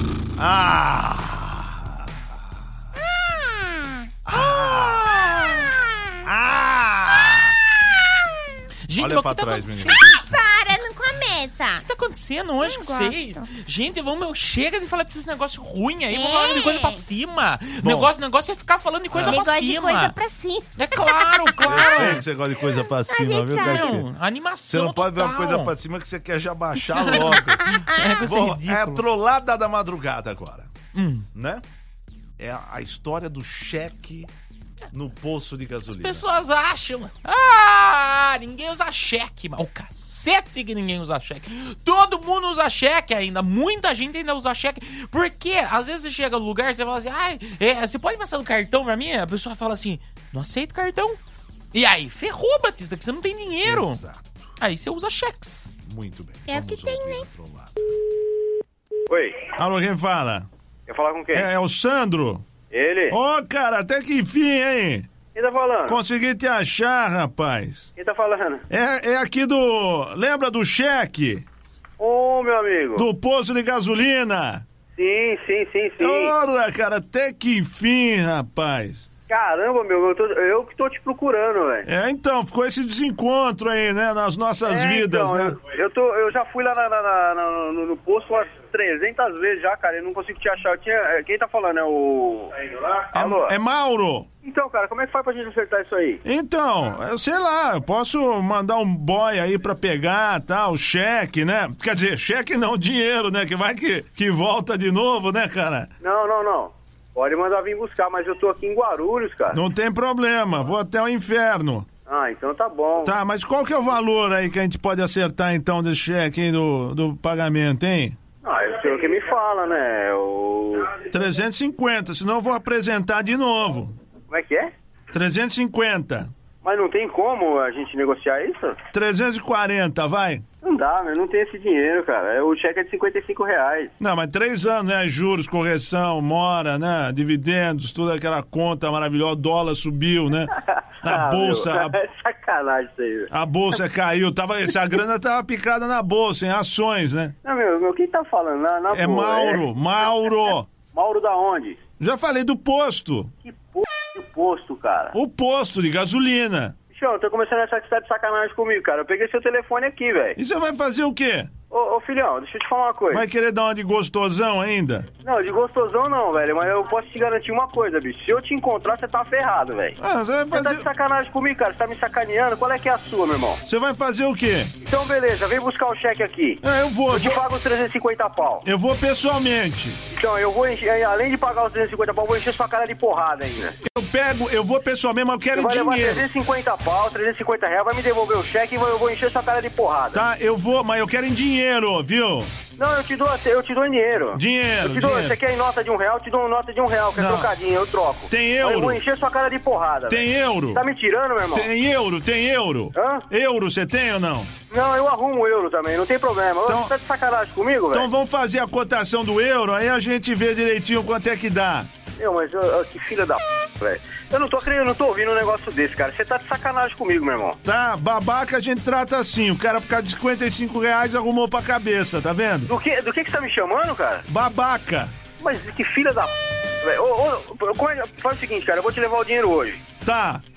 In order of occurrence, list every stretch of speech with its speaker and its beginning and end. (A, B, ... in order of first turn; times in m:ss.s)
0:00.4-0:01.8 A
0:04.3-0:05.3 A
0:04.3-0:05.7 B
0:06.2-0:07.6 A
0:08.9-0:10.2 B
0:09.0-0:10.0 A
0:10.3-0:11.8 C
0:11.8-0:20.2 B
0:12.6-0:13.2 C
0:16.1-0:17.0 C
0:17.8-0:18.1 A
0:19.1-0:19.5 A
0:19.3-0:22.1 C
0:20.8-0:22.2 B
0:21.6-0:24.1 A
0:23.1-0:23.9 C
0:23.5-0:25.7 B
0:24.7-0:30.7 A
0:26.9-0:29.0 B
0:31.0-0:31.3 B
0:31.3-0:31.6 A
0:32.4-0:34.3 A
0:34.9-0:36.3 A
0:35.9-0:51.2 B
0:51.7-0:54.0 B
0:53.6-0:54.4 A
0:54.6-0:55.7 B
0:55.8-0:57.8 A
0:56.5-0:57.2 C
0:59.1-0:59.5 D
0:59.6-1:00.5 A
1:00.9-1:01.5 D
1:01.3-1:02.4 A
1:02.7-1:03.2 D
1:03.1-1:05.1 A
1:05.3-1:06.0 D
1:05.9-1:07.9 A
1:08.0-1:08.6 D
1:08.7-1:11.4 A
1:12.0-1:13.1 D
1:13.0-1:14.6 A
1:15.0-1:16.4 D
1:16.0-1:19.1 A
1:19.3-1:21.9 D
1:21.9-1:25.6 A
1:24.6-1:33.6 D
1:33.1-1:34.3 A
1:34.4-1:36.2 D
1:36.2-1:45.9 A
1:46.0-1:49.6 D
1:49.5-1:51.9 A
1:52.1-1:53.2 D
1:53.0-1:58.2 A
1:58.4-2:01.0 D
2:01.1-2:03.9 A
2:04.3-2:04.7 D
2:05.1-2:06.3 A
2:06.6-2:08.8 D
2:08.9-2:10.4 A
2:10.6-2:13.9 D
2:14.0-2:20.5 A
2:20.6-2:23.3 D
2:21.0-2:22.0 A
2:23.3-2:27.3 A
2:27.4-2:29.7 D
2:28.9-2:30.7 A
2:30.4-2:31.8 D
2:32.0-2:33.3 A
2:33.4-2:35.2 D
2:35.1-2:36.8 A
2:36.9-2:40.4 D
2:40.4-2:41.5 A
2:41.7-2:43.3 D
2:43.1-2:45.1 A
2:45.2-2:50.0 D
2:50.0-2:50.9 A
2:50.5-2:53.6 D
2:53.6-2:54.7 A
2:54.8-2:58.7 D
2:56.6-2:57.4 A
2:58.6-3:00.0 A
3:00.1-3:03.8 D
3:03.8-3:06.3 A
3:05.5-3:10.2 D
3:10.1-3:12.5 A
3:12.8-3:21.7 D
3:14.3-3:15.4 A
3:17.2-3:17.5 A
3:18.3-3:19.0 A
3:20.1-3:20.8 A
3:21.5-3:24.5 A
3:22.9-3:23.3 D
3:24.7-3:28.1 D
3:26.7-3:26.9 A
3:27.9-3:31.9 A
3:32.2-3:37.6 D
3:37.6-3:42.7 A
3:42.7-3:44.3 D
3:44.3-3:45.1 A
3:45.4-3:49.8 D
3:50.0-3:50.4 A